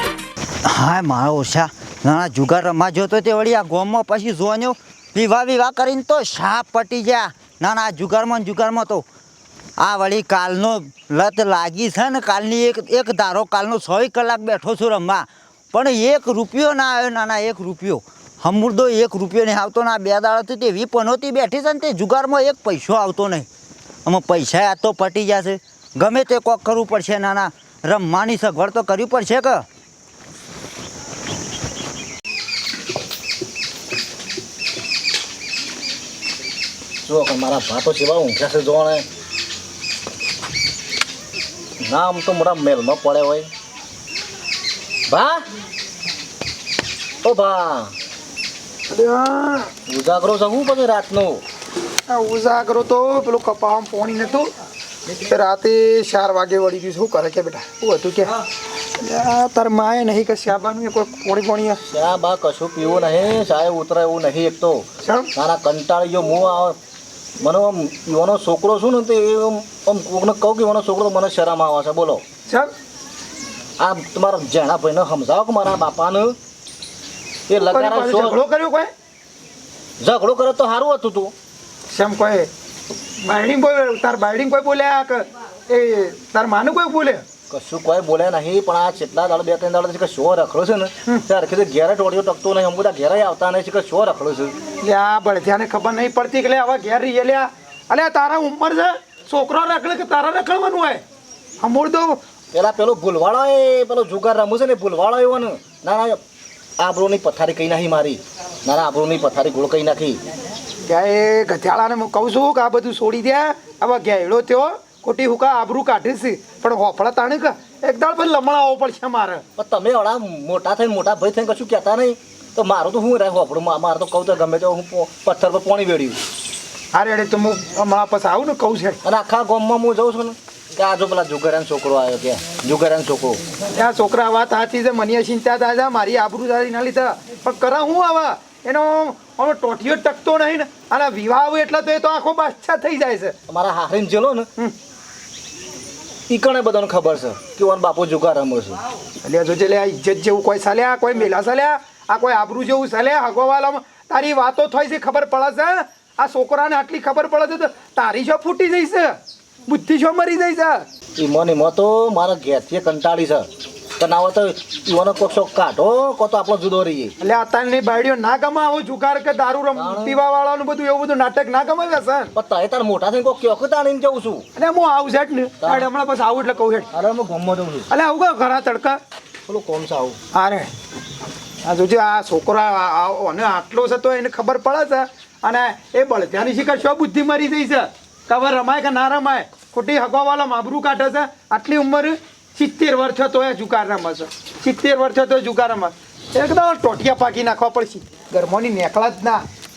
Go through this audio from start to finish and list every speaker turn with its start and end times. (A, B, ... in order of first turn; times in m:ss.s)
0:00.7-0:09.0 A
0:09.8-0:23.5 A
0:24.1-0:29.7 A
0:37.1-0:39.0 B
0:41.8-0:43.5 B
0:45.1-0:45.4 B
0:47.2-0:47.9 B
0:48.9-0:49.7 C
0:49.9-0:51.4 B
0:52.1-0:54.5 C
0:55.2-0:58.3 C
0:59.0-1:01.8 C
1:01.9-1:06.8 B
1:07.4-1:12.2 B
1:13.8-1:16.4 B
1:17.5-1:18.4 B
1:17.7-1:18.9 C
1:20.0-1:21.3 B
1:21.9-1:22.5 C
1:23.2-1:27.2 C
1:27.5-1:34.6 B
1:34.8-1:41.0 C
1:41.6-1:42.2 C
1:42.5-1:46.2 B
1:46.8-1:50.2 B
1:50.9-1:59.4 C
1:59.6-2:06.2 B
2:07.0-2:09.0 C
2:09.0-2:13.4 B
2:13.8-2:23.3 C
2:23.5-2:24.5 B
2:26.3-2:28.8 B
2:29.2-2:39.1 C
2:39.7-2:40.8 C
2:41.2-2:43.5 B
2:44.0-2:47.1 B
2:47.2-2:52.3 C
2:49.8-2:50.2 B
2:52.4-2:54.4 B
2:54.6-2:56.9 C
2:55.6-2:55.9 B
2:56.9-2:57.9 B
2:57.9-2:59.0 C
2:59.5-3:00.2 B
3:00.4-3:00.7 C
3:01.6-3:19.4 C